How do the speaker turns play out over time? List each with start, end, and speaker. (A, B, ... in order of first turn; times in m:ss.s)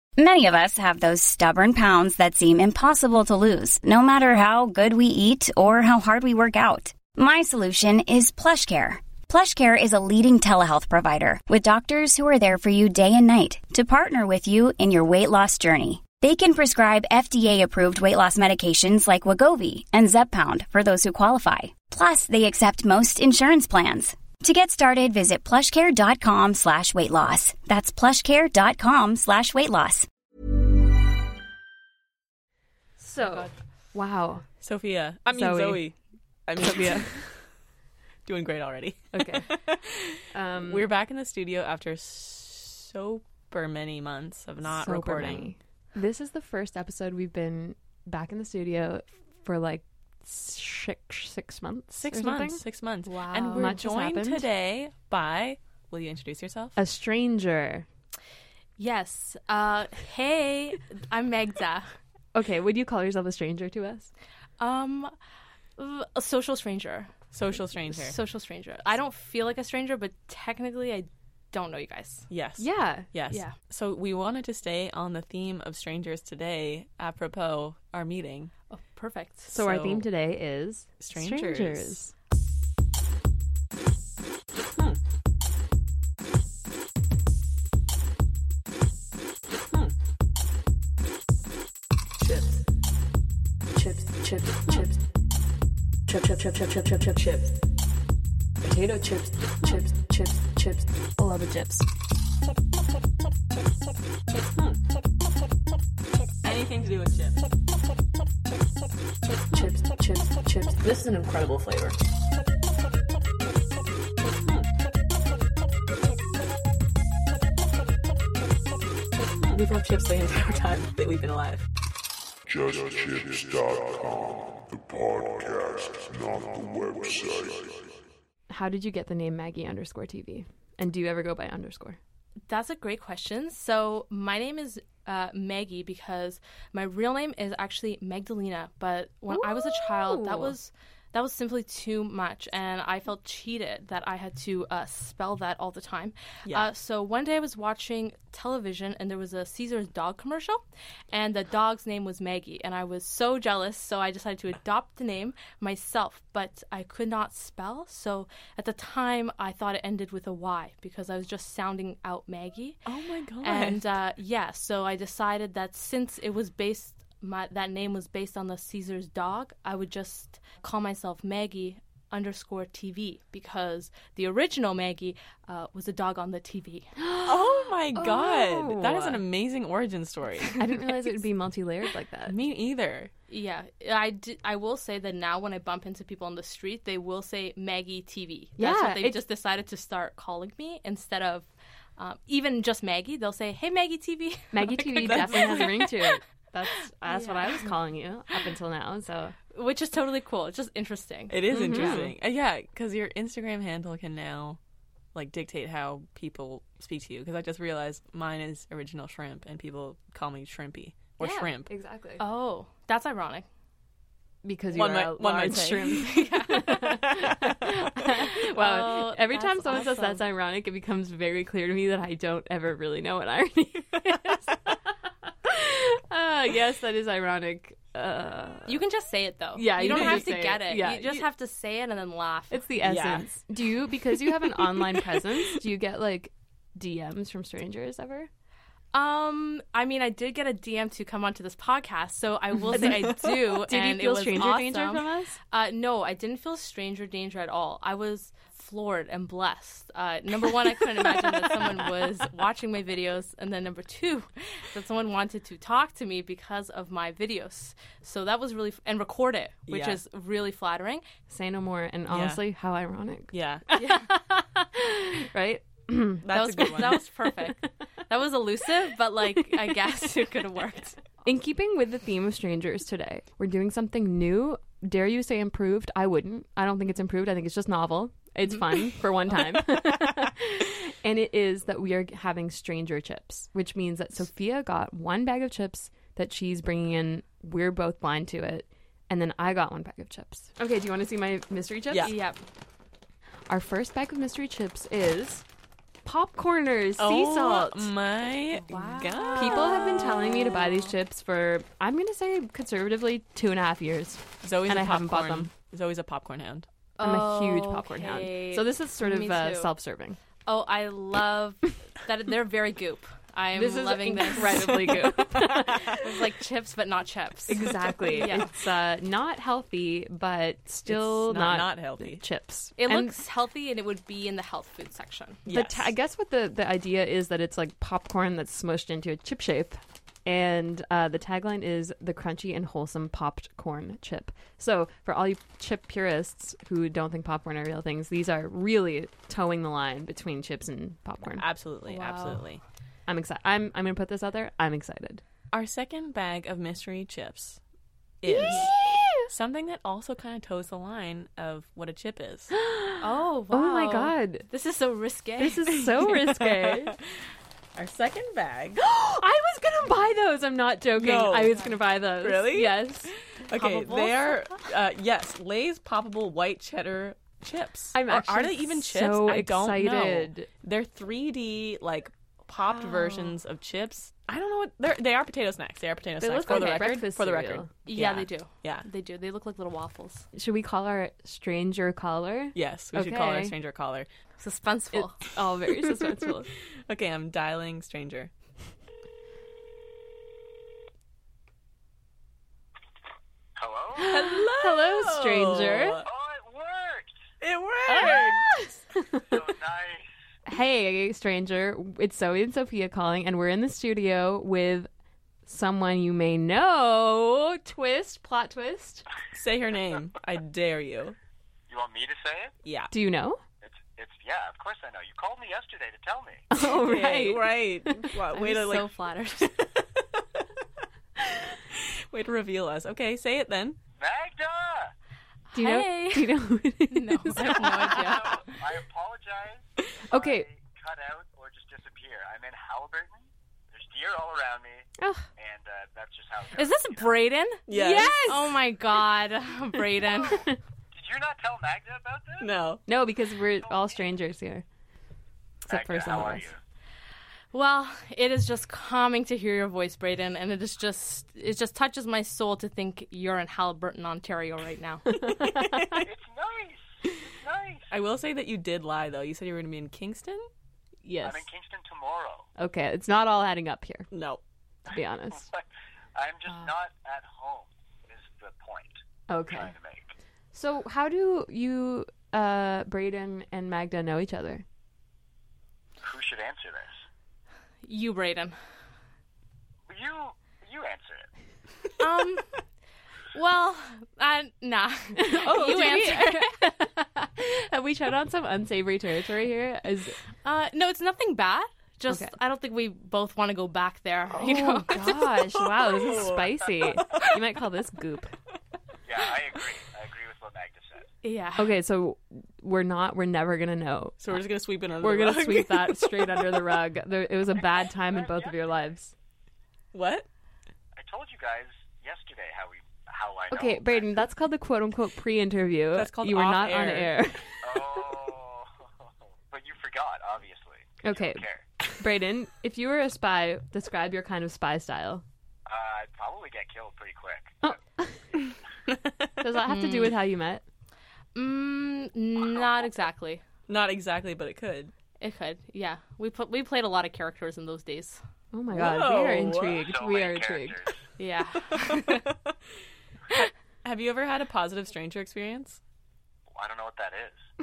0:00.2-0:30.1 A
0:33.0-0:34.4 B
0:33.3-0:33.5 C
0:34.6-0:37.5 D
0:35.3-0:35.9 B
0:36.6-0:37.1 B
0:38.2-0:45.5 D
0:39.1-0:39.6 B
0:40.3-0:40.9 B
0:44.6-0:52.6 B
0:52.0-0:56.8 D
0:53.0-0:53.8 C
0:53.5-0:54.4 B
0:56.8-0:57.8 B
0:58.8-1:01.9 C
1:02.3-1:04.1 B
1:04.6-1:05.1 C
1:05.8-1:07.1 C
1:07.3-1:08.2 D
1:07.8-1:12.3 C
1:12.3-1:18.5 D
1:12.6-1:13.1 B
1:13.3-1:13.5 C
1:18.7-1:19.5 C
1:19.5-1:22.1 B
1:19.5-1:20.0 D
1:21.0-1:22.0 D
1:36.1-1:37.4 E
1:38.6-1:39.2 B
1:38.9-1:40.6 E
1:41.2-1:41.7 B
1:41.2-1:41.8 E
1:46.4-1:47.4 D
1:50.8-1:51.9 D
1:59.4-2:01.6 D
2:02.5-2:08.0 F
2:08.5-2:12.0 B
2:12.5-2:42.8 C
2:19.3-2:20.5 B
2:42.8-2:43.8 D
2:43.4-2:56.9 C
2:57.0-2:59.2 B
2:57.2-3:00.5 D
3:00.5-3:02.4 B
3:02.3-3:03.1 D
3:03.3-3:16.1 C
3:08.6-3:09.2 B
3:14.5-3:19.4 B
3:15.0-3:15.6 D
3:17.0-3:17.7 C
3:19.5-3:22.1 C
3:21.3-3:24.6 D
3:21.5-3:22.1 B
3:25.1-3:31.7 D
3:31.2-3:32.2 B
3:32.2-3:33.5 C
3:34.4-3:44.7 B
3:34.7-3:36.0 D
3:36.0-3:37.1 C
3:37.2-3:37.4 D
3:38.4-3:40.2 C
3:45.3-3:48.8 B
3:48.6-3:52.6 C
3:49.5-3:51.2 B
3:52.5-3:58.3 B
3:52.8-3:53.3 D
3:54.4-3:55.2 D
3:58.9-4:21.0 C
4:02.7-4:05.4 B
4:19.7-4:20.0 D
4:21.3-4:27.5 B
4:22.1-4:22.4 D
4:23.3-4:23.6 D
4:23.8-4:24.1 C
4:26.2-4:27.0 D
4:26.3-4:31.0 C
4:29.3-4:29.8 B
4:31.2-4:52.1 B
4:52.0-4:52.4 C
4:53.5-4:55.4 B
4:56.0-4:57.9 B
4:57.0-5:00.0 D
4:58.7-5:00.9 C
4:58.7-5:05.5 B
5:04.4-5:06.7 D
5:07.0-5:09.7 C
5:07.0-5:10.2 B
5:10.4-5:18.5 C
5:13.5-5:16.0 B
5:17.5-5:23.2 B
5:20.9-5:22.2 D
5:22.8-5:25.4 C
5:25.4-5:25.9 D
5:25.5-5:41.4 B
5:41.3-5:42.6 D
5:41.9-5:42.4 C
5:43.1-5:45.2 B
5:45.5-5:47.6 D
5:48.2-5:52.5 D
5:48.3-5:49.3 B
5:52.5-5:54.5 B
5:53.0-5:55.8 C
5:55.4-5:57.0 B
5:56.3-5:57.0 D
5:57.7-5:58.8 D
5:58.8-6:03.1 B
6:01.0-6:01.6 D
6:01.5-6:01.8 C
6:02.2-6:18.8 D
6:03.5-6:04.5 C
6:07.9-6:10.5 B
6:12.8-6:13.2 B
6:16.2-6:17.7 B
6:16.5-6:16.8 C
6:17.9-6:20.2 C
6:20.3-6:23.5 B
6:22.5-6:24.1 D
6:24.4-6:25.2 C
6:24.9-6:26.5 B
6:26.9-6:28.3 D
6:33.6-6:34.1 G
6:34.0-6:36.0 B
6:34.0-6:36.1 D
6:36.0-6:37.1 G
6:37.4-6:38.7 D
6:37.9-6:39.2 B
6:39.2-6:40.1 G
6:40.5-6:44.9 B
6:45.4-6:49.0 B
6:49.3-6:51.2 D
6:51.7-6:52.5 G
6:52.6-6:52.9 D
6:52.9-6:53.4 B
6:53.6-6:56.4 G
6:56.5-6:58.1 B
6:56.6-7:00.4 D
6:58.3-6:59.5 C
7:01.4-7:03.8 D
7:04.0-7:04.9 G
7:05.5-7:08.3 C
7:05.5-7:08.4 B
7:07.9-7:17.2 G
7:10.1-7:10.4 B
7:15.0-7:15.3 B
7:16.5-7:20.5 C
7:17.7-7:18.2 D
7:17.7-7:18.6 B
7:20.9-7:22.6 G
7:22.4-7:22.8 D
7:22.9-7:24.6 B
7:23.6-7:24.0 G
7:25.7-7:26.5 B
7:25.7-7:26.6 G
7:27.5-7:35.0 C
7:35.1-7:36.0 B
7:35.9-7:37.9 G
7:37.9-7:40.5 D
7:41.0-7:41.5 B
7:41.2-7:42.5 G
7:42.6-7:44.1 B
7:44.1-7:44.4 D
7:44.9-7:45.5 B
7:45.3-7:50.1 G
7:49.3-7:49.7 B
7:50.5-7:54.6 B
7:56.0-7:57.0 G
7:57.8-7:58.6 C
7:59.9-8:01.3 G
8:02.0-8:02.6 C
8:03.3-8:06.6 C
8:05.2-8:10.2 B
8:05.5-8:06.1 D
8:10.4-8:15.0 C
8:12.1-8:12.3 B
8:14.3-8:18.4 B
8:15.0-8:17.2 D
8:19.0-8:21.1 G
8:21.2-8:21.7 C
8:21.6-8:24.2 B
8:24.2-8:26.6 D
8:25.0-8:29.1 B
8:27.5-8:28.6 G
8:29.9-8:30.3 D
8:30.9-8:34.1 G
8:33.5-8:38.0 B
8:35.9-8:37.1 D
8:37.6-8:41.7 G
8:41.0-8:45.2 B
8:45.6-8:47.8 G
8:47.6-8:48.2 B
8:48.9-8:49.3 D
8:49.4-8:50.6 B
8:49.7-8:50.1 C
8:51.3-8:53.4 C
8:52.4-8:52.9 G
8:53.7-8:54.9 D
8:55.2-8:58.2 C
8:58.5-9:00.8 B
8:58.7-8:59.8 D
8:59.8-9:01.0 G
9:01.2-9:02.2 C
9:03.8-9:05.8 D
9:06.5-9:07.4 G